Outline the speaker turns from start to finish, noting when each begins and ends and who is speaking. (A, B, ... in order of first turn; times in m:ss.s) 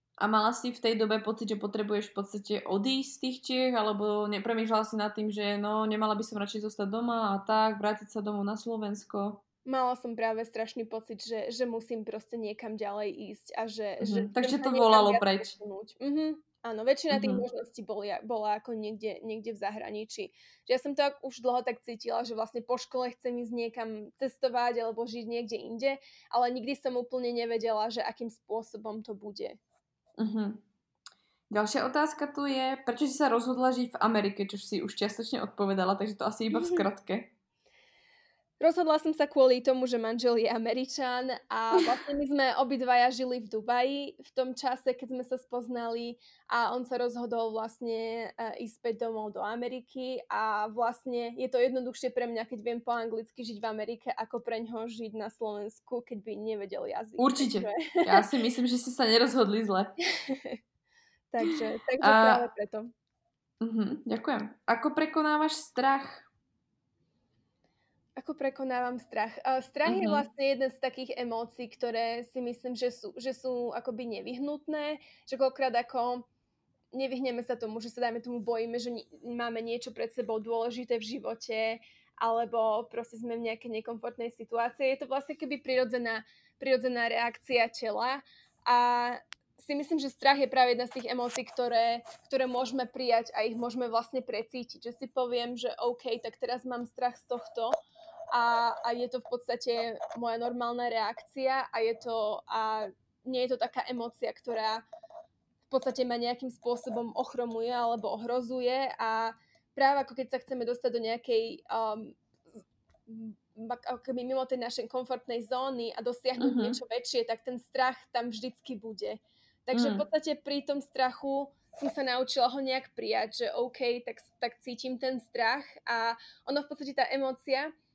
0:00.2-0:09.4 A
0:09.6-0:29.6 B
0:14.0-0:15.5 A
0:17.1-0:17.4 A
0:30.2-0:30.6 A
0:31.5-0:37.3 A
0:36.5-0:36.8 B
0:38.6-0:58.2 B
0:57.2-0:59.9 A
1:00.0-1:00.6 B
1:01.3-1:02.9 B
1:02.0-1:02.4 A
1:03.6-1:06.3 A
1:08.2-1:16.2 B
1:09.8-1:10.2 A
1:16.9-1:37.8 B
1:38.3-1:44.8 B
1:45.7-2:07.7 B
1:56.4-1:56.8 A
1:59.7-2:00.0 A